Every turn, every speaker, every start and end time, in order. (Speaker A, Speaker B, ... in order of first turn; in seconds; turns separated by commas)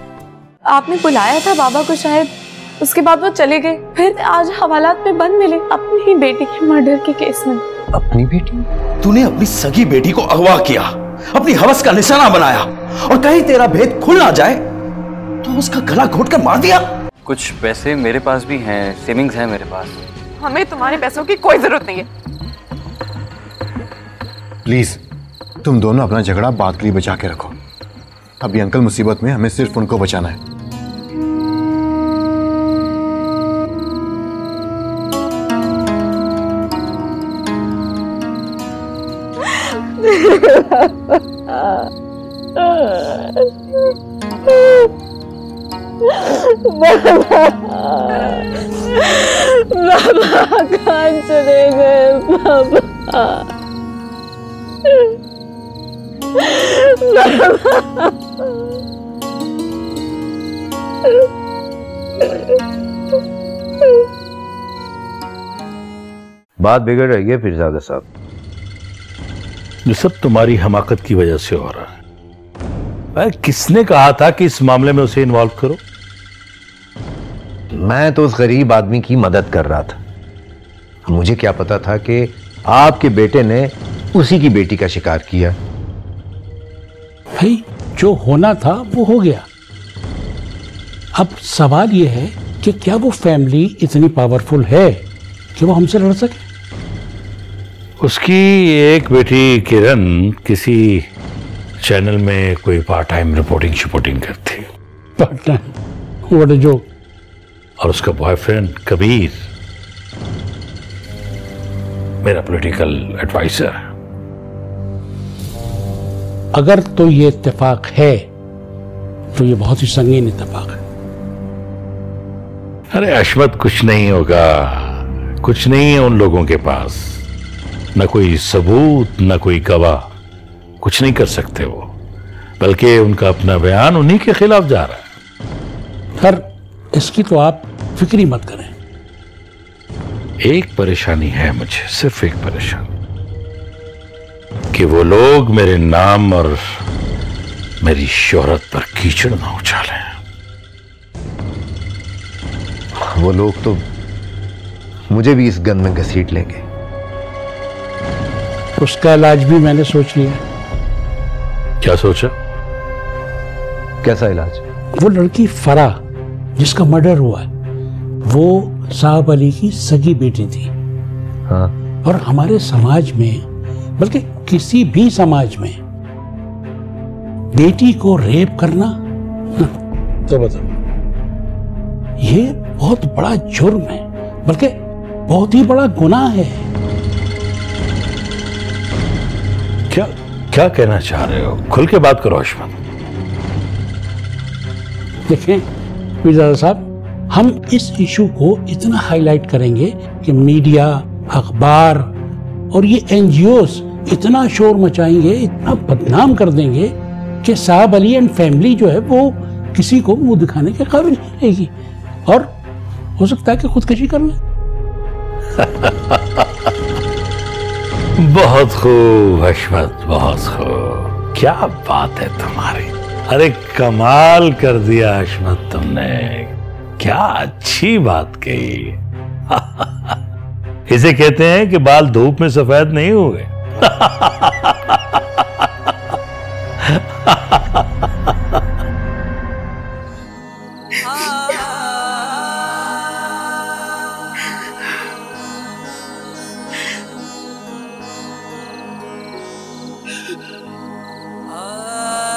Speaker A: 0.7-2.3, Speaker A: 2.8-7.6, Speaker B: 8.2-8.6, Speaker C: 10.2-10.6, Speaker C: 13.3-14.3, Speaker C: 15.5-16.7, Speaker D: 17.2-20.0, Speaker E: 24.6-25.0, Speaker E: 25.6-27.6, Speaker E: 28.4-30.4, Speaker A: 40.1-40.9, Speaker A: 42.6-43.4, Speaker A: 46.3-53.4, Speaker A: 56.5-58.1, Speaker B: 66.6-68.0, Speaker F: 69.8-71.9, Speaker F: 73.1-75.8, Speaker B: 77.8-79.9, Speaker B: 81.1-85.5, Speaker G: 87.4-89.5, Speaker G: 91.1-95.0, Speaker G: 95.5-96.4, Speaker F: 98.0-101.0, Speaker F: 101.8-104.6, Speaker G: 105.2-105.6, Speaker G: 106.3-106.8, Speaker F: 107.8-109.4, Speaker F: 112.2-113.8, Speaker G: 116.5-118.3, Speaker G: 119.3-120.8, Speaker F: 122.9-127.2, Speaker F: 127.9-130.0, Speaker F: 130.8-131.9, Speaker F: 132.6-135.0, Speaker G: 136.9-138.7, Speaker F: 140.4-142.8, Speaker F: 144.7-146.6, Speaker F: 147.8-150.1, Speaker B: 153.1-153.8, Speaker B: 155.1-156.6, Speaker G: 158.8-160.4, Speaker F: 161.8-162.3, Speaker B: 164.0-164.6, Speaker G: 165.0-166.0, Speaker G: 166.6-167.5, Speaker G: 168.2-170.7, Speaker G: 172.0-173.4, Speaker G: 174.0-175.8, Speaker G: 177.5-178.9, Speaker F: 180.3-180.7, Speaker G: 182.2-184.7, Speaker G: 185.3-186.6, Speaker F: 189.9-192.7, Speaker G: 195.3-195.6, Speaker G: 196.2-202.1, Speaker G: 202.7-211.7, Speaker G: 212.2-212.5, Speaker G: 213.2-214.4, Speaker F: 215.6-216.5, Speaker F: 218.2-229.0, Speaker F: 229.5-229.9, Speaker F: 230.9-235.2, Speaker F: 236.9-237.8